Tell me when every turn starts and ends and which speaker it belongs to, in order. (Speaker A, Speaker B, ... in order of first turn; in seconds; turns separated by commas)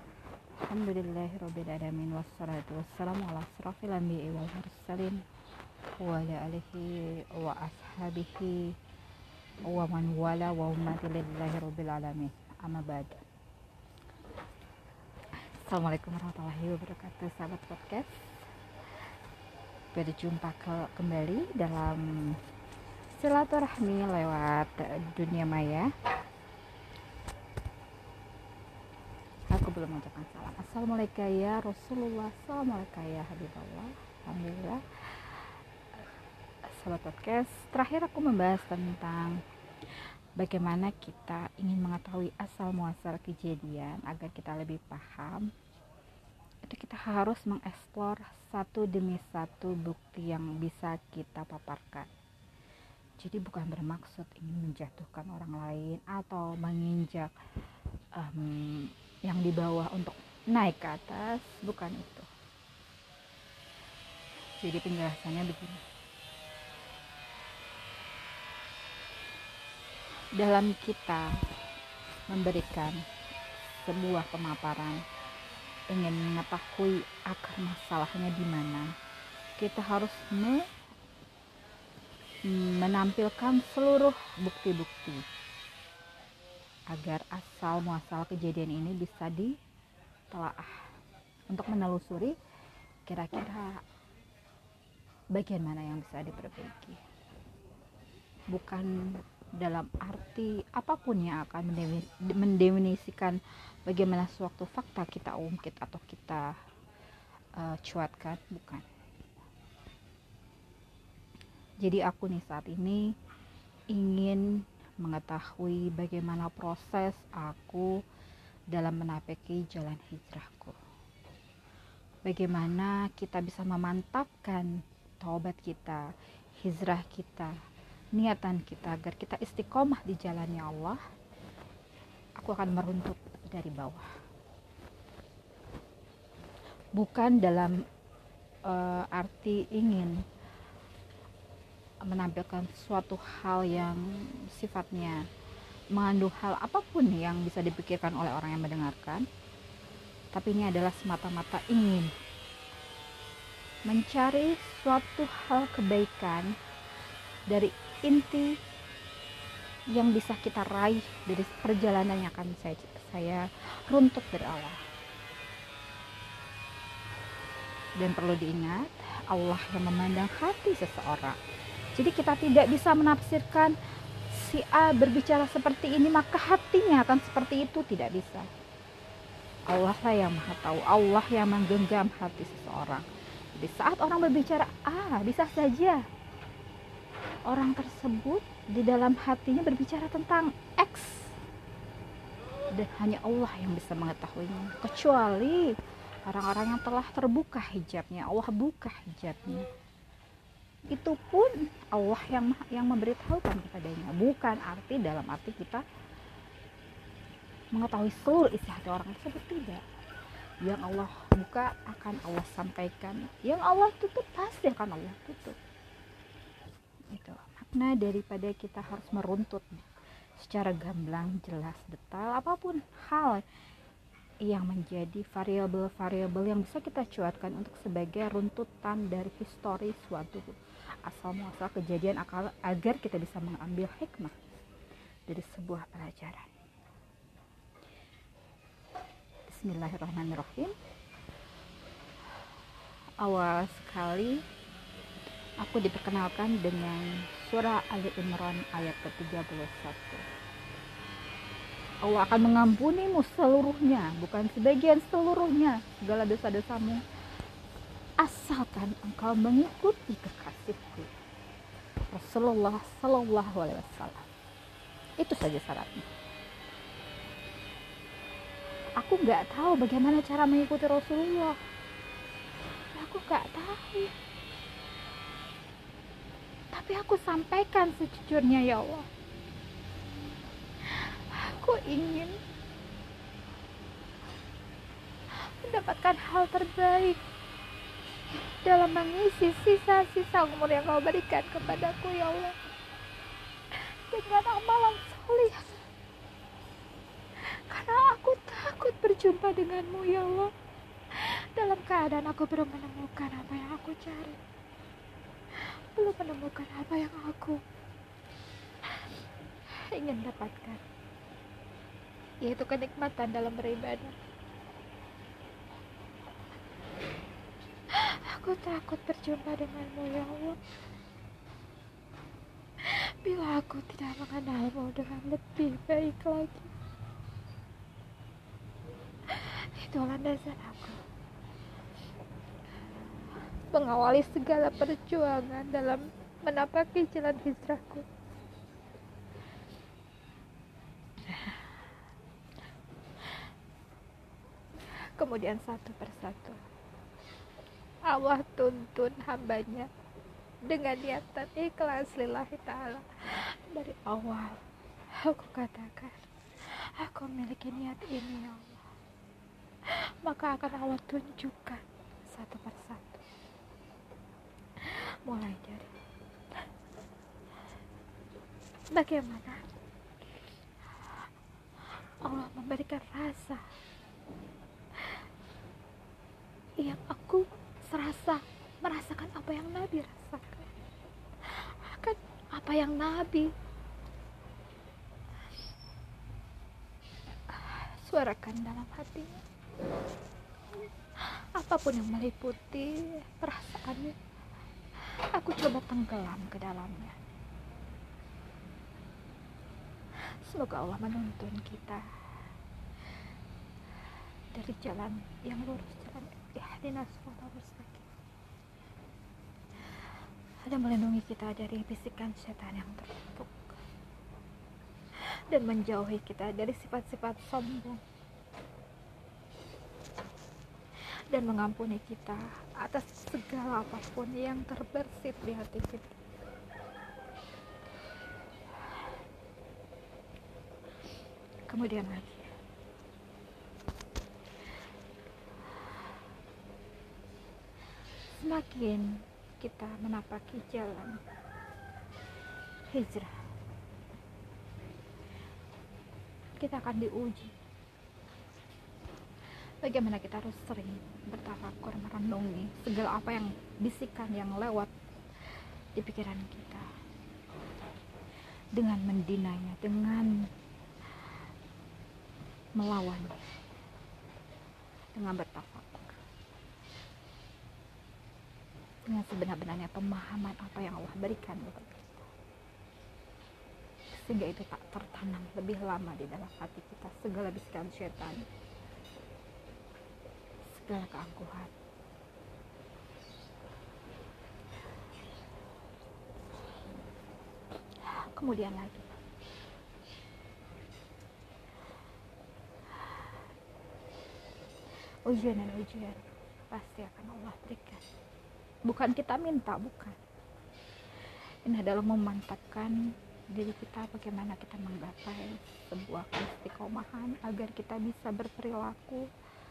Speaker A: 0.6-5.2, Speaker A: 6.0-8.7, Speaker A: 9.6-13.2, Speaker A: 15.6-18.3, Speaker A: 19.9-22.4, Speaker A: 23.1-25.9, Speaker A: 29.5-35.5, Speaker A: 36.7-39.4, Speaker A: 40.4-45.5, Speaker A: 46.6-52.1, Speaker A: 53.2-57.3, Speaker A: 58.1-62.3, Speaker A: 64.6-65.8, Speaker A: 70.4-71.3, Speaker A: 72.3-73.0, Speaker A: 73.7-75.0, Speaker A: 75.9-78.9, Speaker A: 79.6-80.6, Speaker A: 82.5-85.2, Speaker A: 86.9-89.5, Speaker A: 90.3-90.8, Speaker A: 91.5-92.3, Speaker A: 93.0-93.8, Speaker A: 95.3-97.0, Speaker A: 98.5-98.9, Speaker A: 99.6-106.5, Speaker A: 107.5-108.8, Speaker A: 111.8-113.0, Speaker A: 113.9-114.5, Speaker A: 115.0-117.9, Speaker A: 118.7-120.8, Speaker A: 122.2-126.0, Speaker A: 126.6-127.5, Speaker A: 128.2-131.0, Speaker A: 132.4-134.1, Speaker A: 136.9-137.8, Speaker A: 138.7-140.2, Speaker A: 142.1-145.2, Speaker A: 145.9-149.2, Speaker A: 150.3-152.1, Speaker A: 153.9-156.5, Speaker A: 157.5-158.5, Speaker A: 159.9-164.8, Speaker A: 168.0-171.4, Speaker A: 171.9-173.7, Speaker A: 174.3-178.5, Speaker A: 179.7-186.0, Speaker A: 187.4-191.3, Speaker A: 192.7-195.7, Speaker A: 196.2-199.7, Speaker A: 200.9-205.8, Speaker A: 207.7-209.8, Speaker A: 210.6-215.6, Speaker A: 217.1-219.7, Speaker A: 220.4-223.4, Speaker A: 224.4-234.6, Speaker A: 235.3-236.5, Speaker A: 239.5-240.7, Speaker A: 243.2-244.4, Speaker A: 245.6-250.2, Speaker A: 252.0-257.0, Speaker A: 258.2-261.1, Speaker A: 262.1-264.3, Speaker A: 265.2-266.1, Speaker A: 269.0-271.6, Speaker A: 272.9-274.1, Speaker A: 276.7-279.1, Speaker A: 280.8-282.3, Speaker A: 285.3-287.2, Speaker A: 288.6-292.6, Speaker A: 293.7-295.8, Speaker A: 297.4-300.5, Speaker A: 301.1-304.4, Speaker A: 305.6-307.6, Speaker A: 309.8-310.8, Speaker A: 312.4-314.1, Speaker A: 317.9-320.6, Speaker A: 322.8-326.7, Speaker A: 329.3-331.0, Speaker A: 333.7-338.1, Speaker A: 341.2-341.9, Speaker A: 344.9-346.6, Speaker A: 348.1-349.9, Speaker A: 350.7-354.6, Speaker A: 355.2-358.8, Speaker A: 359.9-363.2, Speaker A: 364.8-365.9, Speaker A: 368.9-369.6, Speaker A: 370.9-371.2, Speaker A: 372.2-373.6, Speaker A: 376.8-380.7, Speaker A: 381.4-383.5, Speaker A: 387.5-389.4, Speaker A: 391.2-394.1, Speaker A: 395.0-397.3, Speaker A: 400.3-402.1, Speaker A: 404.5-408.1, Speaker A: 410.6-413.7, Speaker A: 415.5-418.0, Speaker A: 421.3-426.2, Speaker A: 431.7-432.5, Speaker A: 438.3-441.2, Speaker A: 442.9-443.3, Speaker A: 446.6-447.5, Speaker A: 449.8-454.9, Speaker A: 455.4-456.9, Speaker A: 458.7-460.5, Speaker A: 461.1-461.4, Speaker A: 462.8-463.5, Speaker A: 465.1-466.2, Speaker A: 469.1-472.3, Speaker A: 474.1-478.4, Speaker A: 480.7-481.7, Speaker A: 488.0-489.1, Speaker A: 492.9-493.3, Speaker A: 495.2-498.0, Speaker A: 498.9-500.2, Speaker A: 501.6-503.0, Speaker A: 503.5-509.2